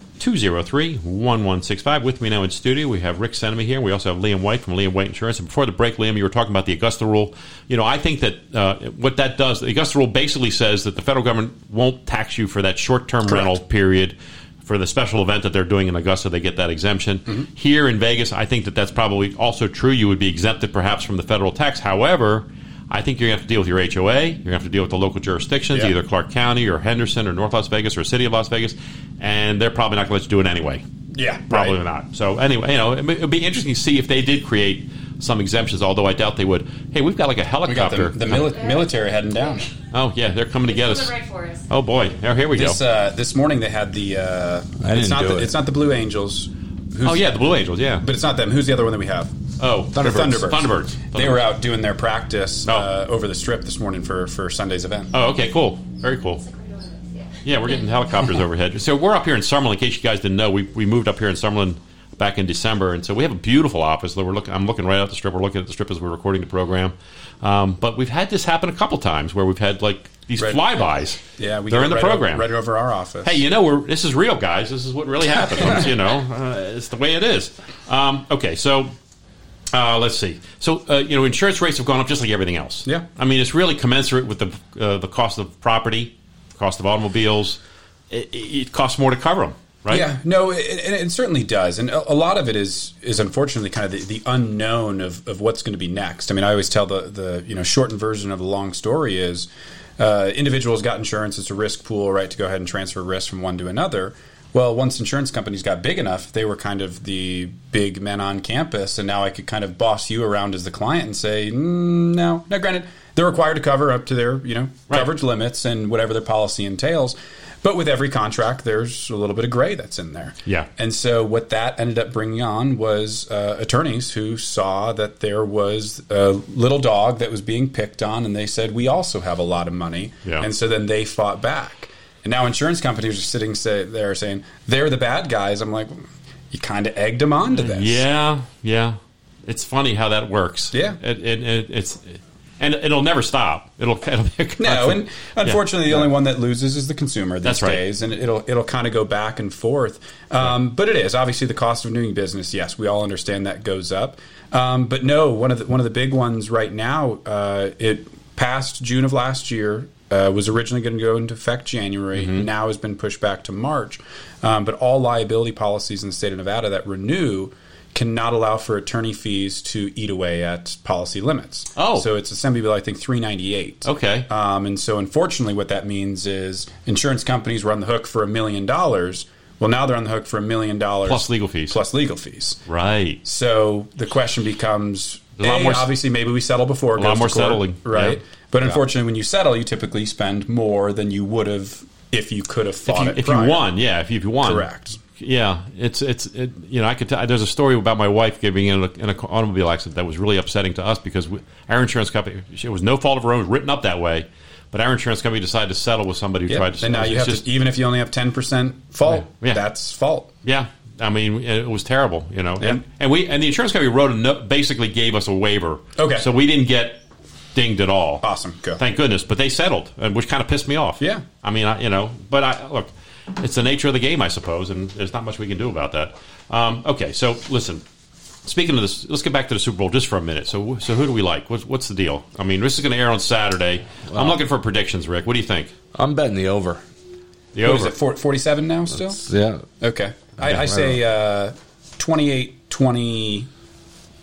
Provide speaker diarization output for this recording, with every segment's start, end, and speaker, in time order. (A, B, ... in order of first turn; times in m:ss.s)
0:00.2-0:30.8 A
0:13.3-0:13.5 B
0:31.1-0:31.8 B
0:31.5-0:38.4 A
0:37.6-0:39.7 B
0:38.3-0:39.6 C
0:39.9-0:41.2 A
0:40.7-0:41.6 C
0:41.7-0:42.8 A
0:42.5-0:47.2 B
0:44.8-0:45.5 D
0:47.0-0:48.0 A
0:48.0-0:49.3 B
0:49.6-0:51.5 A
0:49.9-0:55.1 B
0:55.1-0:56.4 A
0:56.4-0:57.8 C
0:57.4-1:12.5 A
1:11.4-1:13.4 B
1:13.2-1:18.9 A
1:19.7-1:27.6 A
1:28.1-1:30.1 A
1:29.9-2:18.0 B
2:17.5-2:25.6 A
2:20.7-2:21.0 B
2:24.6-3:02.6 B
2:27.4-2:27.8 A
2:42.2-2:42.4 A
2:51.8-2:52.1 A
2:53.8-2:54.3 A
3:01.0-3:01.8 A
3:02.6-3:03.2 A
3:03.2-3:13.6 B
3:05.4-3:05.9 A
3:07.0-3:08.2 A
3:12.9-3:27.4 A
3:14.4-3:15.0 B
3:26.5-3:30.3 B
3:29.1-3:29.6 A
3:30.4-3:37.0 A
3:36.0-3:36.2 B
3:37.5-3:38.2 A
3:38.2-3:38.8 B
3:38.8-3:47.8 A
3:48.4-3:55.7 A
3:54.1-3:54.4 D
3:55.9-3:56.8 D
3:57.5-3:57.9 A
3:57.6-3:59.2 B
3:59.2-3:59.6 D
3:59.8-4:03.5 B
4:00.4-4:01.0 D